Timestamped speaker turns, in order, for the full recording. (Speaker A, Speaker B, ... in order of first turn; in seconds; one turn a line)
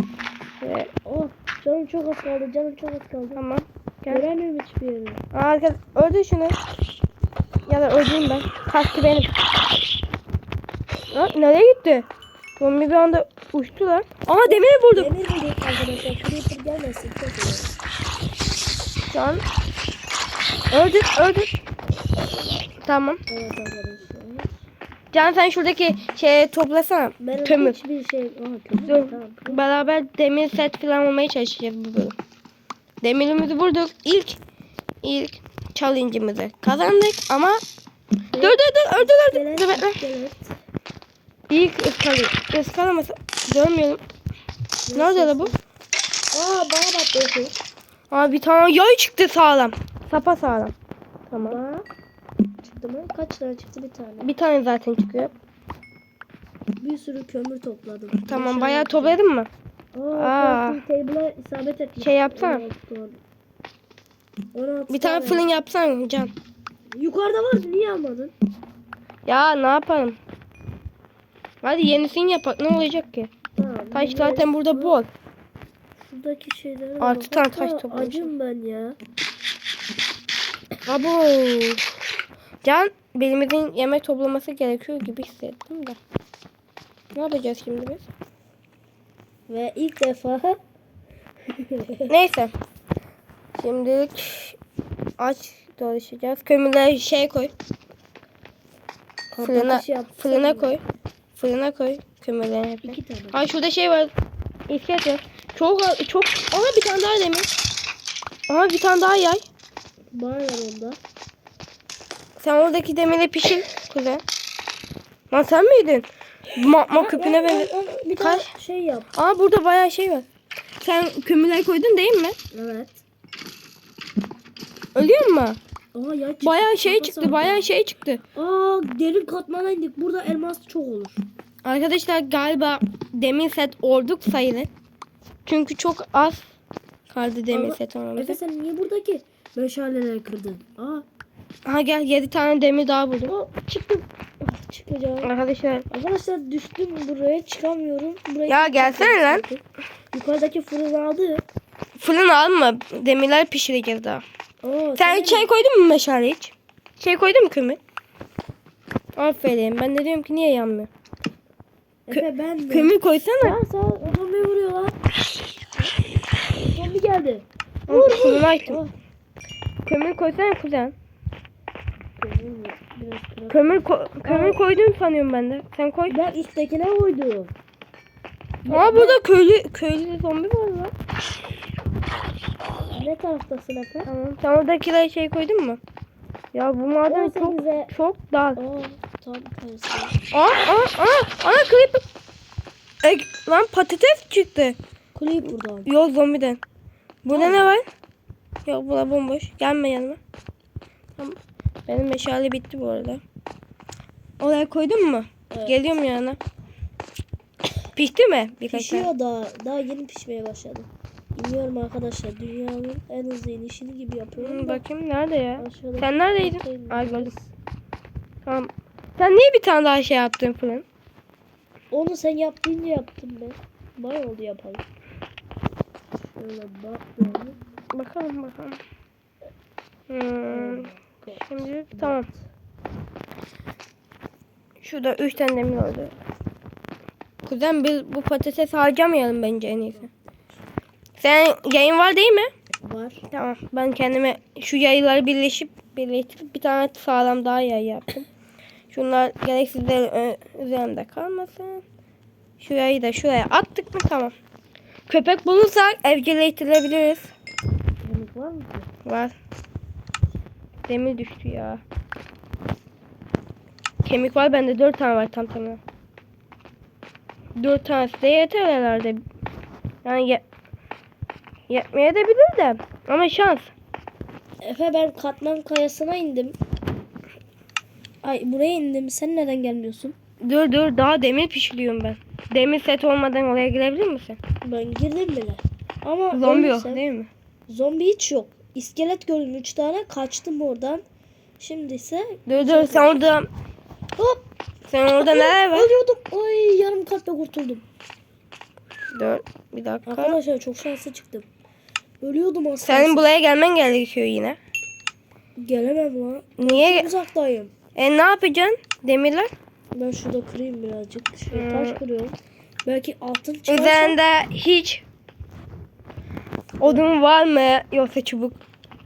Speaker A: 0.6-0.9
Speaker B: 1.0-3.4
Speaker A: 3.3-4.2
Speaker B: 4.1-5.2
Speaker A: 5.3-6.5
Speaker A: 7.7-9.3
Speaker A: 11.1-12.1
Speaker A: 12.6-15.1
Speaker B: 14.5-17.8
Speaker A: 19.1-19.4
Speaker A: 20.7-21.6
Speaker A: 22.8-23.2
Speaker B: 23.3-24.5
Speaker A: 25.1-27.8
Speaker B: 27.2-29.6
Speaker A: 28.9-32.1
Speaker A: 33.0-34.4
Speaker A: 35.0-37.6
Speaker B: 38.3-40.5
Speaker A: 38.4-40.0
Speaker A: 41.5-44.0
Speaker B: 44.9-45.6
Speaker A: 44.9-45.5
Speaker B: 46.3-47.5
Speaker A: 48.1-50.7
Speaker A: 51.3-51.6
Speaker B: 51.4-51.9
Speaker B: 52.6-54.3
Speaker A: 54.2-55.3
Speaker B: 56.8-59.2
Speaker A: 58.2-59.5
Speaker B: 59.9-63.2
Speaker A: 60.1-60.8
Speaker A: 62.0-62.7
Speaker B: 64.5-65.5
Speaker A: 64.9-66.3
Speaker B: 66.9-68.3
Speaker A: 69.3-70.2
Speaker A: 71.6-73.3
Speaker B: 73.5-75.0
Speaker A: 73.9-75.1
Speaker B: 76.0-79.0
Speaker A: 77.0-78.3
Speaker A: 80.8-81.9
Speaker A: 82.6-86.0
Speaker A: 87.1-88.0
Speaker B: 89.5-90.6
Speaker B: 91.5-92.1
Speaker A: 92.1-92.5
Speaker A: 93.5-94.6
Speaker A: 95.2-97.5
Speaker B: 99.3-100.8
Speaker A: 99.4-100.8
Speaker A: 101.3-104.1
Speaker B: 102.8-103.4
Speaker A: 104.7-107.5
Speaker A: 108.5-109.4
Speaker B: 110.1-111.0
Speaker A: 112.4-114.2
Speaker A: 115.3-117.7
Speaker B: 116.9-119.1
Speaker A: 118.2-118.5
Speaker A: 119.1-120.2
Speaker A: 120.8-122.3
Speaker B: 122.5-123.0
Speaker A: 124.9-125.6
Speaker B: 125.9-127.7
Speaker A: 126.4-128.2
Speaker B: 128.3-131.2
Speaker A: 131.6-134.7
Speaker A: 135.4-136.4
Speaker A: 137.1-138.4
Speaker B: 137.5-141.1
Speaker A: 141.6-143.3
Speaker B: 143.2-145.3
Speaker A: 145.2-145.8
Speaker B: 145.9-151.4
Speaker A: 148.5-149.4
Speaker A: 152.0-154.2
Speaker B: 154.6-155.5
Speaker A: 155.0-157.8
Speaker A: 159.2-160.9
Speaker B: 162.1-165.0
Speaker A: 162.1-163.6
Speaker B: 166.6-168.9
Speaker A: 167.9-168.8
Speaker A: 169.8-170.9
Speaker B: 172.2-174.6
Speaker A: 173.5-176.2
Speaker B: 176.1-177.5
Speaker B: 178.6-179.2
Speaker A: 178.7-180.9
Speaker B: 182.9-184.1
Speaker A: 184.1-185.8
Speaker A: 186.5-188.6
Speaker B: 187.1-187.9
Speaker B: 188.6-190.1
Speaker A: 190.3-192.0
Speaker A: 193.0-194.8
Speaker B: 195.1-195.9
Speaker A: 195.8-196.6
Speaker A: 197.2-197.8
Speaker B: 197.3-197.7
Speaker A: 198.7-200.2
Speaker A: 201.2-203.2
Speaker A: 204.4-206.4
Speaker B: 205.5-205.8
Speaker A: 207.9-209.1
Speaker B: 208.7-214.8
Speaker A: 214.4-217.3
Speaker B: 215.6-217.5
Speaker A: 218.4-220.8
Speaker B: 221.9-224.8
Speaker B: 226.2-227.6
Speaker A: 227.9-228.8
Speaker A: 230.1-232.3
Speaker B: 230.5-232.4
Speaker A: 234.8-236.1
Speaker A: 237.4-240.1
Speaker A: 241.2-242.5
Speaker B: 242.8-243.2
Speaker A: 243.3-248.2
Speaker A: 248.9-251.8
Speaker A: 252.6-254.3
Speaker A: 255.1-257.3
Speaker B: 258.0-258.9
Speaker A: 259.0-259.3
Speaker A: 260.9-261.8
Speaker A: 264.0-265.8
Speaker A: 267.6-269.2
Speaker A: 270.0-270.4
Speaker A: 271.7-273.7
Speaker B: 274.6-276.6
Speaker B: 278.2-280.1
Speaker A: 280.4-284.4
Speaker B: 284.6-287.0
Speaker A: 286.3-287.3
Speaker B: 287.7-291.0
Speaker B: 291.6-293.3
Speaker A: 292.5-293.5
Speaker B: 294.1-294.4
Speaker A: 294.9-295.9
Speaker B: 295.1-297.8
Speaker A: 299.1-300.4
Speaker B: 300.1-301.5
Speaker B: 302.2-303.3
Speaker A: 302.9-304.6
Speaker B: 305.6-307.7
Speaker A: 306.6-307.1
Speaker A: 307.9-309.5
Speaker B: 309.9-314.2
Speaker A: 311.5-312.0
Speaker A: 313.7-315.0
Speaker A: 316.8-318.6